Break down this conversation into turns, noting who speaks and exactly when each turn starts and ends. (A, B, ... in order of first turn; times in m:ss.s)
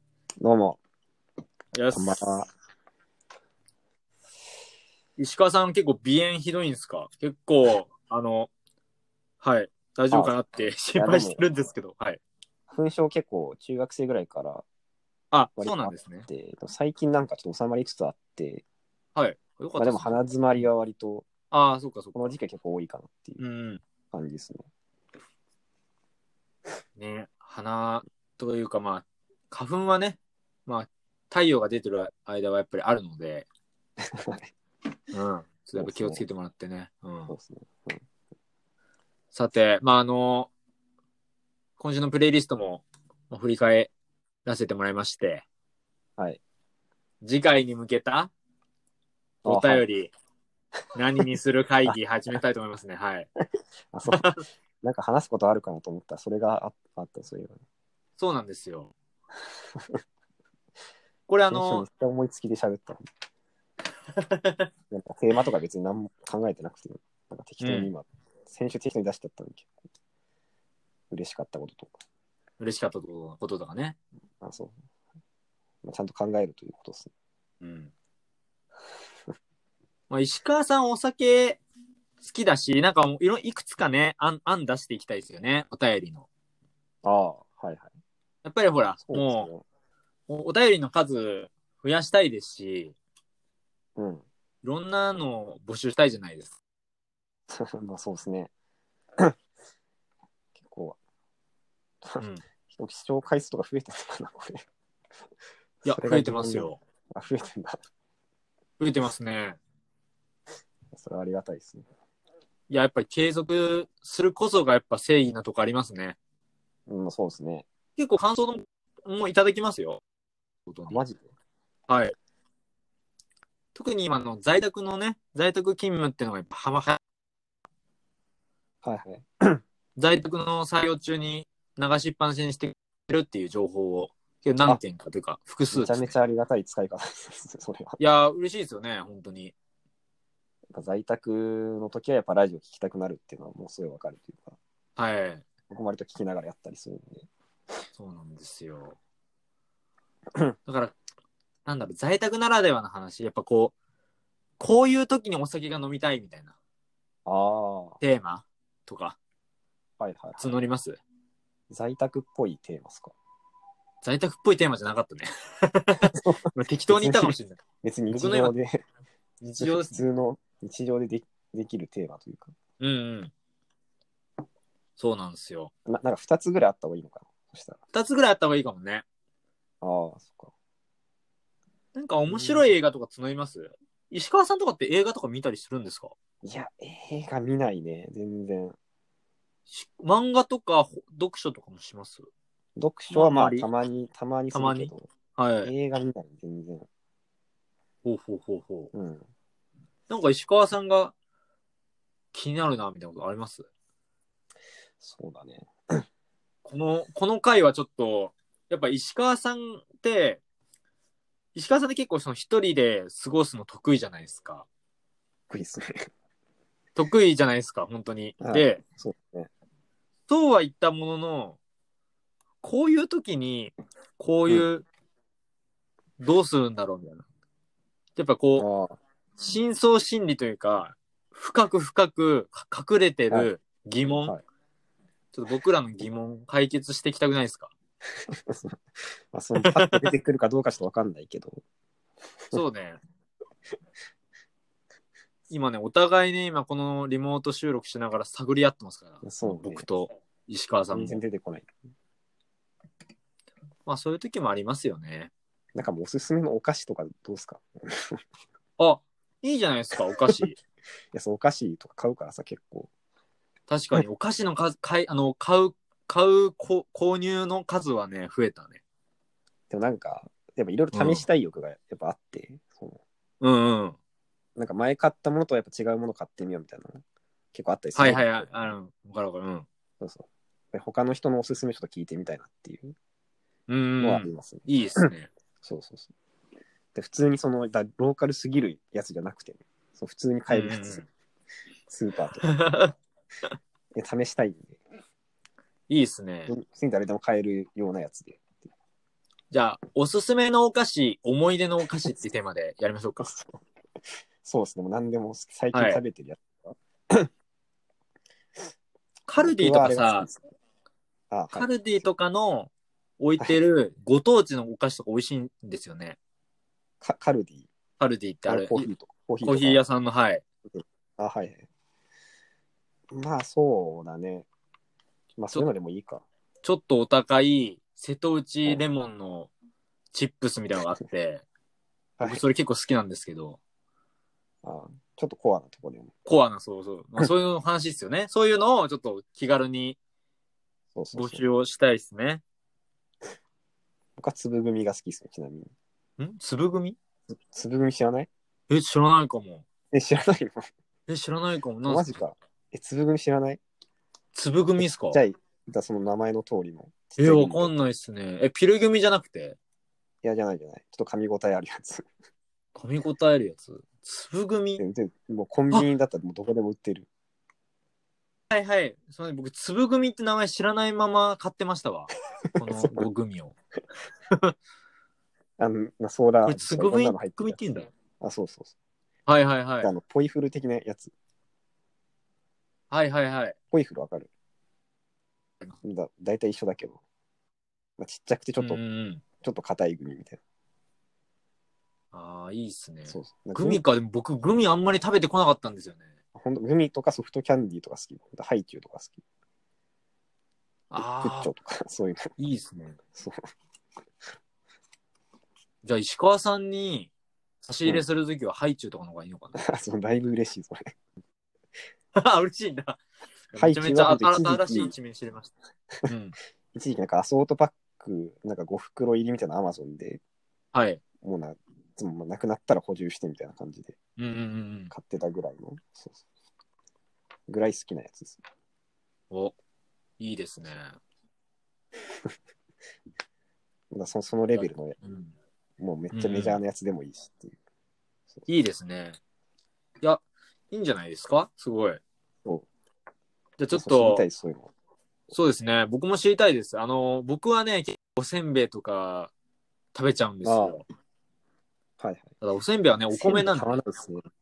0:00.4-0:00.8 A
0:01.7-0:02.2 B
0:01.9-0:02.5 A
0:05.2-0:08.5 B
0:09.4-0:12.2 B
0:10.1-0:11.5 A
0:12.7-0:14.6 A
0:15.3-0:16.2 B
0:15.6-0:18.6 A
0:19.2-0:20.2 B
0:19.8-0:21.3 A
0:21.5-0:22.3 B
0:22.1-0:23.4 A
0:23.4-0:23.8 B
0:24.1-0:24.7 A
0:27.0-0:33.5 B
0:34.2-0:34.5 A
0:35.1-0:37.3 B
0:35.8-0:36.2 A
0:37.3-0:38.0 A
0:39.3-0:40.5 B
0:41.8-0:43.9 B
0:44.4-0:45.4 B
0:47.2-0:48.3 B
0:49.4-0:49.8 A
0:49.4-0:50.1 B
0:50.9-0:53.3 B
0:53.9-0:57.6 A
0:54.1-0:54.4 B
0:58.2-0:58.9 B
0:59.7-1:00.0 A
1:01.3-1:01.8 B
1:01.5-1:03.0 A
1:04.1-1:04.7 B
1:04.9-1:09.7 A
1:07.6-1:07.9 B
1:11.1-1:11.9 A
1:12.6-1:14.0 B
1:14.4-1:14.8 A
1:15.8-1:17.1 A
1:17.6-1:17.9 B
1:20.1-1:21.6 B
1:22.2-1:26.3 B
1:27.0-1:27.9 A
1:28.4-1:29.5 B
1:29.0-1:29.6 A
1:30.3-1:32.9 B
1:34.0-1:34.2 A
1:34.6-1:36.6 B
1:37.5-1:38.5 A
1:40.6-1:41.0 A
1:42.0-1:44.6 A
1:45.8-1:47.8 A
1:45.8-1:46.8 B
1:48.8-1:49.6 B
1:50.9-1:51.8 A
1:52.7-1:56.2 B
1:56.9-1:57.6 A
1:58.0-2:00.0 B
2:00.7-2:01.0 B
2:00.9-2:01.3 A
2:01.9-2:02.1 B
2:03.7-2:07.0 B
2:08.8-2:09.6 A
2:10.0-2:16.1 B
2:15.7-2:18.0 A
2:18.0-2:19.5 B
2:20.7-2:24.6 A
2:25.0-2:25.4 B
2:25.7-2:27.3 A
2:28.0-2:29.0 B
2:30.6-2:31.0 B
2:31.6-2:33.7 B
2:34.6-2:36.5 B
2:37.2-2:38.0 A
2:38.0-2:39.2 B
2:40.0-2:40.5 A
2:40.4-2:41.0 B
2:41.7-2:43.1 A
2:44.0-2:48.5 B
2:46.1-2:48.8 A
2:49.4-2:50.0 B
2:49.6-2:52.5 A
2:52.8-2:53.3 B
2:55.0-2:55.7 B
2:55.8-2:57.8 A
2:57.9-2:59.0 B
2:59.8-3:00.5 A
3:01.9-3:06.1 B
3:02.3-3:02.7 A
3:06.4-3:08.8 A
3:09.7-3:12.3 B
3:12.8-3:15.1 A
3:13.1-3:13.7 B
3:14.5-3:15.7 B
3:15.6-3:16.9 A
3:18.0-3:18.9 B
3:18.9-3:19.2 A
3:20.1-3:21.1 B
3:22.3-3:23.7 B
3:25.0-3:26.0 A
3:26.6-3:30.4 B
3:31.5-3:34.6 B
3:35.5-3:36.1 A
3:37.0-3:38.8 B
3:38.4-3:39.5 A
3:40.3-3:41.6 B
3:42.6-3:44.9 B
3:46.2-3:47.2 B
3:48.2-3:48.7 B
3:48.6-3:49.0 A
3:49.4-3:54.4 B
3:55.3-3:57.7 B
3:58.5-3:58.8 A
3:59.3-4:01.6 A
3:59.6-4:00.1 B
4:02.5-4:03.0 B
4:05.5-4:11.2 B
4:09.2-4:09.8 A
4:10.9-4:11.7 A
4:13.8-4:15.3 B
4:15.7-4:18.2 A
4:18.8-4:20.6 B
4:21.1-4:22.9 A
4:23.7-4:28.8 B
4:29.7-4:33.0 A
4:30.9-4:31.2 B
4:33.4-4:34.0 B
4:34.6-4:37.0 A
4:37.5-4:38.7 A
4:37.9-4:39.7 B
4:40.0-4:42.9 A
4:43.7-4:45.3 B
4:44.0-4:45.1 A
4:45.6-4:46.1 A
4:46.9-4:51.0 A
4:50.5-4:51.0 B
4:51.9-4:52.6 A
4:52.4-4:52.9 B
4:53.9-4:54.8 A
4:55.9-4:56.5 B
4:56.5-4:58.6 A
4:59.5-5:03.3 B
5:03.2-5:03.6 A
5:04.4-5:07.3 A
5:05.7-5:06.0 B
5:09.3-5:10.3 B
5:09.4-5:10.4 A
5:11.3-5:12.1 A
5:11.5-5:16.2 B
5:17.0-5:17.7 A
5:18.0-5:18.9 B
5:18.5-5:19.8 A
5:19.4-5:20.4 B
5:20.7-5:21.7 A
5:23.1-5:24.5 A
5:25.4-5:26.2 A
5:26.6-5:29.5 B
5:30.1-5:31.4 B
5:32.2-5:32.4 A
5:32.2-5:33.6 B
5:34.6-5:36.1 A
5:36.2-5:40.0 B
5:40.9-5:41.4 A
5:41.1-5:42.4 B
5:44.2-5:45.7 A
5:46.2-5:47.0 B
5:47.5-5:48.3 A
5:48.7-5:49.6 B
5:49.9-5:50.7 A
5:51.1-5:52.2 B
5:51.8-5:53.6 A
5:54.3-5:55.2 B
5:54.8-5:57.7 A
5:57.2-5:59.6 B
6:00.2-6:02.0 A
6:02.7-6:04.8 B
6:04.8-6:07.1 A
6:08.5-6:13.5 B
6:12.7-6:13.0 A
6:15.6-6:17.6 A
6:16.4-6:17.9 B
6:18.2-6:18.7 A
6:19.3-6:19.9 B
6:19.8-6:21.1 A
6:22.9-6:23.6 B
6:23.7-6:24.3 A
6:25.8-6:27.0 A
6:28.0-6:28.8 A
6:28.6-6:29.2 B
6:29.4-6:30.4 A
6:32.1-6:36.1 B
6:33.1-6:33.8 A
6:36.3-6:39.2 A
6:40.9-6:41.5 B
6:40.9-6:42.3 A
6:42.4-6:43.0 B
6:43.1-6:43.4 A
6:45.8-6:47.1 B
6:47.6-6:49.6 B
6:49.6-6:50.9 A
6:52.1-6:53.0 B
6:53.5-6:55.5 B
6:53.6-6:54.9 A
6:56.1-6:56.4 B
6:56.7-7:00.2 A
7:00.7-7:01.0 B
7:01.2-7:04.0 A
7:04.2-7:04.9 B
7:04.9-7:06.2 A
7:07.5-7:08.4 A
7:10.2-7:10.9 B
7:13.9-7:15.0 A
7:14.5-7:15.3 B
7:15.8-7:17.6 A
7:16.1-7:16.6 B
7:18.5-7:19.2 B
7:20.0-7:22.0 B
7:23.6-7:24.2 B
7:23.7-7:24.7 A
7:25.3-7:29.3 B
7:29.9-7:30.8 B
7:30.4-7:30.8 A
7:32.0-7:32.3 A
7:32.4-7:33.8 B
7:33.1-7:34.2 A